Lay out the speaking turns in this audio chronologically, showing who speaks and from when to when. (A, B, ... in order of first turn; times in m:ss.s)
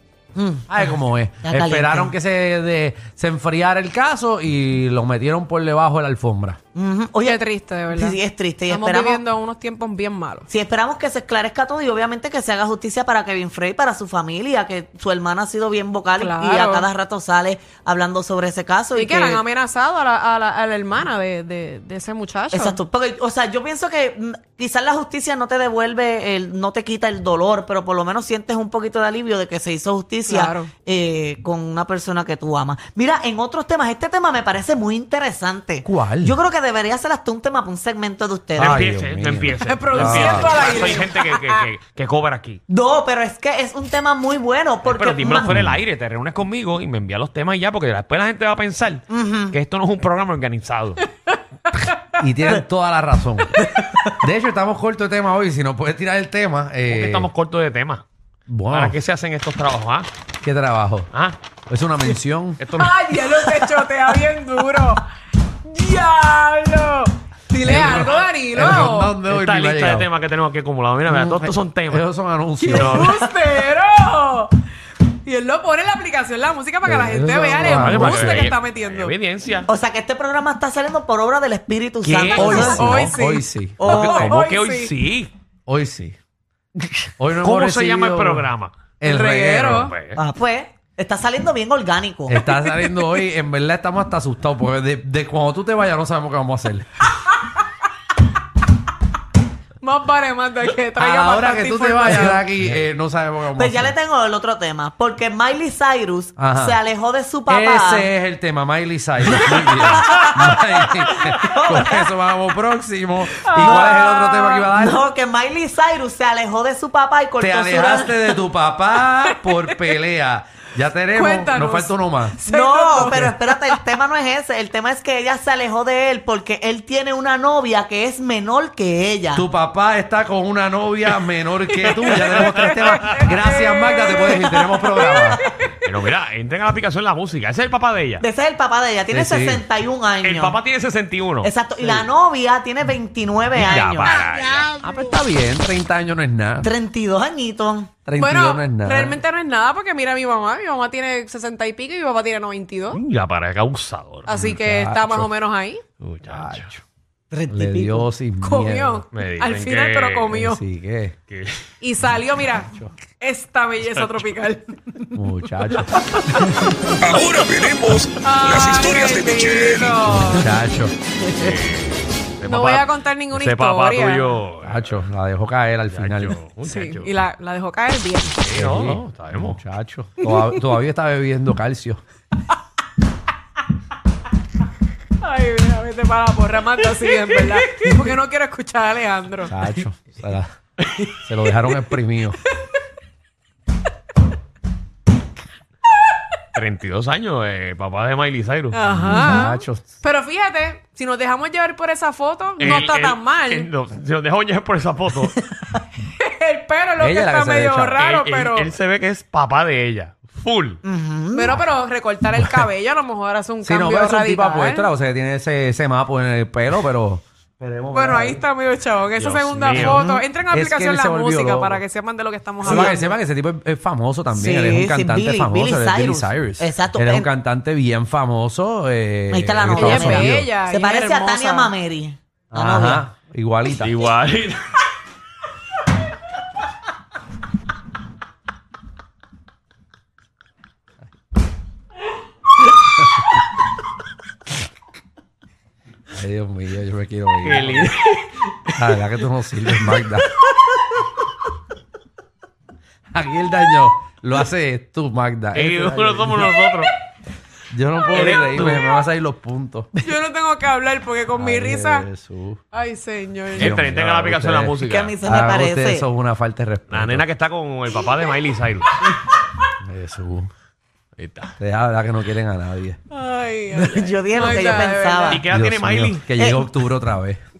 0:00.4-0:02.2 A
0:00.7-0:06.6 B
0:06.8-0:07.4 A
0:07.2-0:10.5 C
0:07.9-0:09.2 A
0:10.5-0:19.4 A
0:16.2-0:16.9 C
0:19.0-0:22.8 C
0:22.5-0:38.8 A
0:30.3-0:30.7 C
0:35.8-0:36.4 B
0:38.6-0:40.8 B
0:38.6-0:42.6 D
0:39.6-0:41.7 C
0:42.7-0:45.6 A
0:44.8-0:51.0 D
0:45.5-0:45.8 B
0:49.1-0:49.6 A
0:52.2-0:53.6 B
0:53.6-0:54.2 A
0:54.2-0:57.3 B
0:56.9-0:58.0 D
0:58.5-0:59.0 B
0:58.7-1:00.1 D
1:00.4-1:01.1 B
1:01.1-1:01.4 D
1:01.7-1:02.6 B
1:02.6-1:03.4 D
1:02.8-1:05.0 C
1:05.6-1:09.2 C
1:07.6-1:10.1 B
1:07.7-1:08.2 D
1:09.3-1:12.1 D
1:11.1-1:13.2 B
1:12.6-1:14.6 C
1:12.7-1:13.2 D
1:15.2-1:19.2 C
1:16.8-1:18.5 B
1:17.6-1:19.7 D
1:19.7-1:23.1 A
1:22.0-1:22.8 D
1:22.1-1:24.2 B
1:22.5-1:25.0 C
1:23.8-1:24.3 A
1:23.9-1:25.3 D
1:25.7-1:26.2 B
1:27.2-1:29.9 B
1:27.4-1:28.7 D
1:29.1-1:29.9 C
1:29.7-1:30.2 D
1:30.2-1:32.4 A
1:32.3-1:36.9 B
1:39.8-1:42.5 C
1:41.0-1:44.0 B
1:43.6-1:48.1 A
1:46.4-1:46.8 B
1:47.5-1:55.0 B
1:49.5-1:52.1 A
1:53.4-1:54.7 C
1:53.5-1:54.1 A
1:54.7-1:58.3 A
1:57.4-2:02.4 B
1:59.3-1:59.8 C
2:01.1-2:03.8 C
2:02.4-2:09.4 A
2:03.0-2:03.4 B
2:09.3-2:15.4 B
2:11.7-2:15.7 C
2:12.1-2:13.3 D
2:15.8-2:18.2 D
2:18.2-2:20.6 A
2:19.1-2:19.6 B
2:20.2-2:22.0 D
2:21.4-2:24.7 A
2:23.5-2:24.7 D
2:24.8-2:26.7 B
2:26.6-2:27.9 A
2:28.1-2:29.2 B
2:28.2-2:33.0 C
2:32.9-2:34.5 D
2:34.3-2:35.9 C
2:34.3-2:35.3 B
2:36.0-2:36.7 D
2:36.3-2:36.8 B
2:37.3-2:38.0 A
2:37.5-2:39.0 B
2:38.4-2:40.6 C
2:39.1-2:40.4 D
2:40.3-2:41.2 B
2:41.3-2:41.6 D
2:41.8-2:47.2 C
2:42.1-2:42.9 B
2:43.9-2:44.2 D
2:45.2-2:46.0 B
2:47.0-2:50.0 E
2:48.2-2:50.5 C
2:50.2-2:50.9 B
2:51.3-2:55.0 D
2:52.4-2:54.4 C
2:54.6-2:56.4 B
2:55.9-2:57.2 D
2:56.6-2:58.5 C
2:58.4-2:59.6 D
2:58.5-3:02.0 B
3:00.2-3:00.6 C
3:05.2-3:09.6 C
3:09.5-3:10.5 B
3:11.2-3:12.4 B
3:16.6-3:18.8 D
3:18.7-3:23.7 C
3:18.8-3:20.0 B
3:22.6-3:25.4 D
3:25.6-3:28.7 C
3:27.0-3:28.0 B
3:28.0-3:30.8 D
3:30.8-3:31.6 A
3:31.4-3:34.9 C
3:33.6-3:38.4 B
3:37.9-3:43.0 C
3:39.2-3:40.0 D
3:39.8-3:40.2 A
3:40.5-3:41.8 B
3:42.6-3:50.5 B
3:42.6-3:43.0 A
3:44.3-3:47.3 A
3:49.3-3:53.0 A
3:49.8-3:51.7 C
3:52.5-3:54.0 B
3:53.7-3:54.7 D
4:06.1-4:07.9 B
4:07.4-4:08.3 D
4:08.8-4:10.4 B
4:13.1-4:16.5 B
4:15.5-4:16.9 D
4:17.7-4:20.1 B
4:18.1-4:18.9 D
4:20.0-4:22.1 C
4:21.4-4:22.6 B
4:22.7-4:23.8 C
4:23.5-4:27.2 B
4:23.6-4:25.2 D
4:24.8-4:26.1 A
4:26.9-4:29.0 D
4:29.8-4:30.5 B
4:31.2-4:31.6 D
4:31.6-4:33.0 B
4:33.1-4:35.5 C
4:33.8-4:35.4 A
4:35.3-4:36.3 D
4:35.5-4:37.4 B
4:36.4-4:36.7 A